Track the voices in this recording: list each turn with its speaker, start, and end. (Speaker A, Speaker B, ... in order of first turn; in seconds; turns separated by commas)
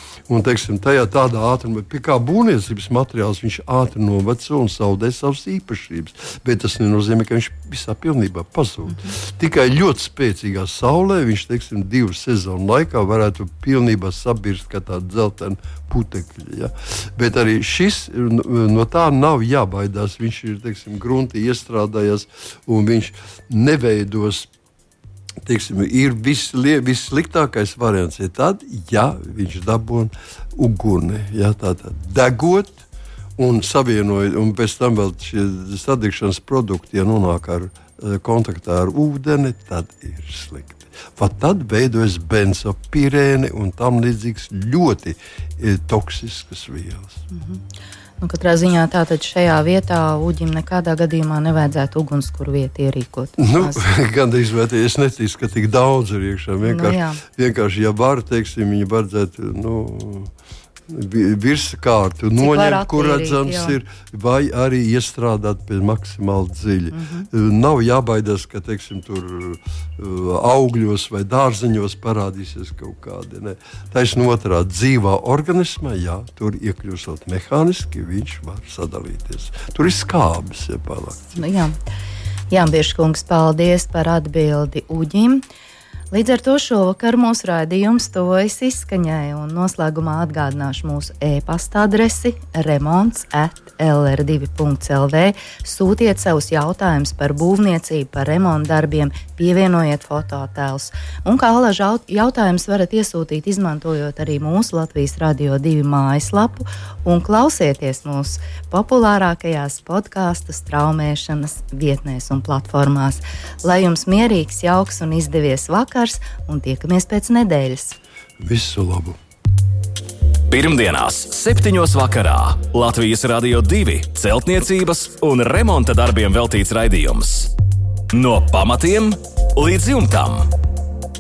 Speaker A: 0.3-24.5, Speaker A: 25.4-32.9, Speaker A: 33.4-47.2, Speaker B: 47.3-47.6, Speaker B: 48.2-53.8, Speaker A: 53.4-60.3, Speaker B: 56.6-57.2, Speaker A: 60.9-81.4, Speaker B: 62.4-63.8, Speaker B: 66.9-67.3, Speaker B: 81.4-81.8, Speaker B: 82.5-85.4, Speaker B: 86.1-118.0, Speaker A: 118.4-119.2, Speaker C: 120.5-127.5, Speaker C: 128.1-130.5